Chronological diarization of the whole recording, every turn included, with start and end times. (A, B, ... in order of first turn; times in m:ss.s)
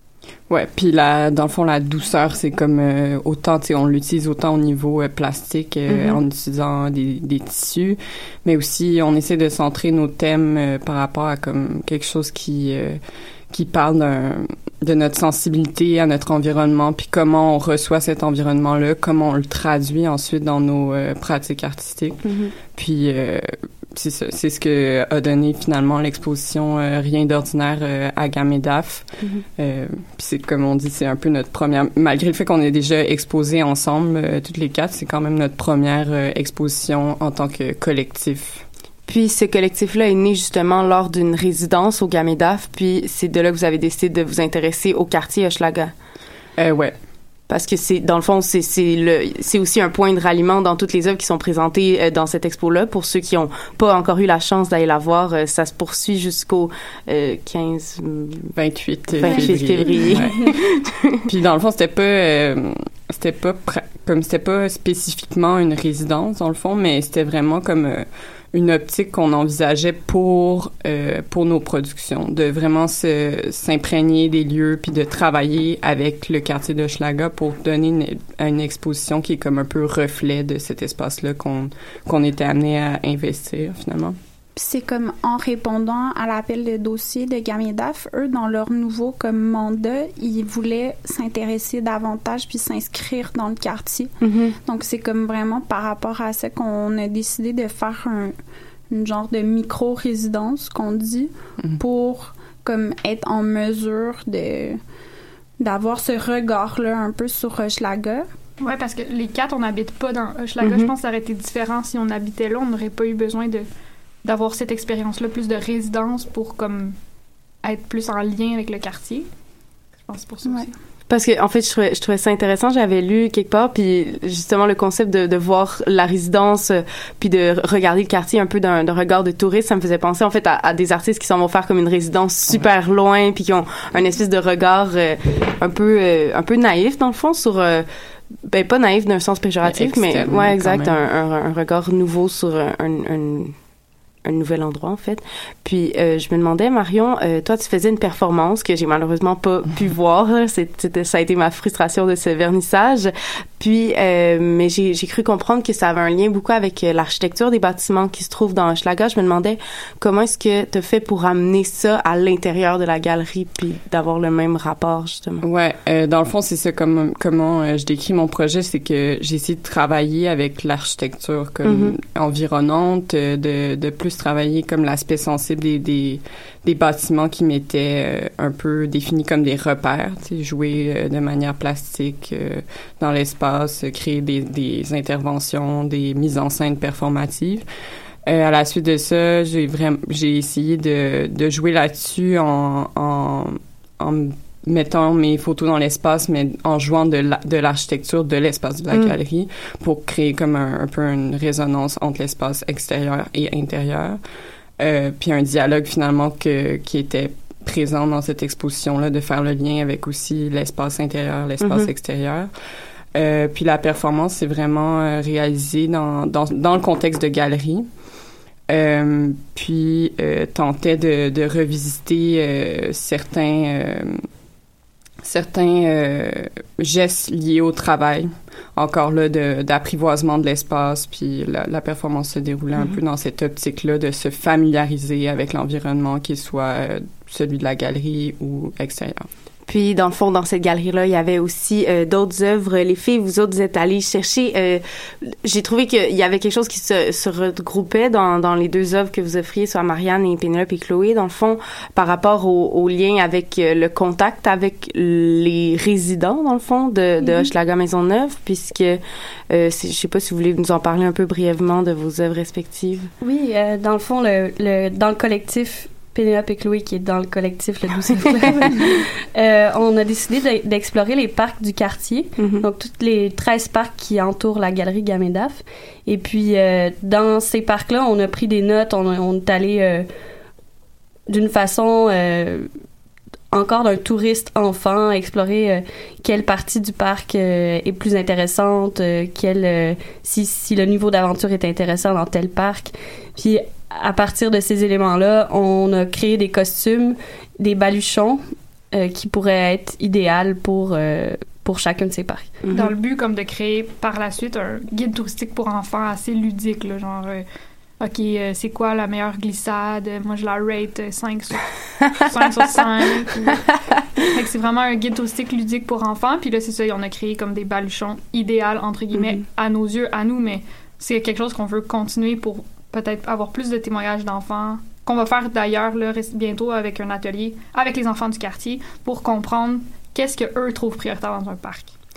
0:00.5-0:13.0 A
0:13.5-0:38.6 A
0:22.2-0:22.5 B
0:39.1-0:45.9 B
0:46.6-0:46.9 A
0:47.5-0:58.5 B
0:58.5-1:00.5 A
0:59.2-1:00.6 B
1:01.3-1:24.2 A
1:24.6-1:38.4 C
1:34.2-1:34.5 B
1:38.9-1:44.8 C
1:45.6-1:48.3 C
1:48.6-1:53.7 D
1:50.6-1:50.9 B
1:54.2-1:57.0 D
1:57.6-1:59.3 D
2:00.1-2:00.8 D
2:01.1-2:17.8 B
2:18.4-2:23.6 B
2:19.6-2:21.0 A
2:24.2-2:45.4 B
2:45.4-3:07.6 A
2:51.6-2:51.9 B
3:08.2-3:24.2 A
3:24.8-3:32.5 A
3:33.1-3:37.9 A
3:38.7-3:44.2 A
3:45.2-3:59.3 A
3:59.7-4:23.1 B
4:23.2-4:28.8 E
4:29.4-4:40.1 E
4:32.4-4:32.6 B
4:41.3-4:42.7 E
4:43.5-5:02.5 E
5:02.6-5:02.9 B
5:02.7-5:07.4 D
5:08.0-5:11.6 D
5:12.3-5:13.6 D
5:14.3-5:31.9 D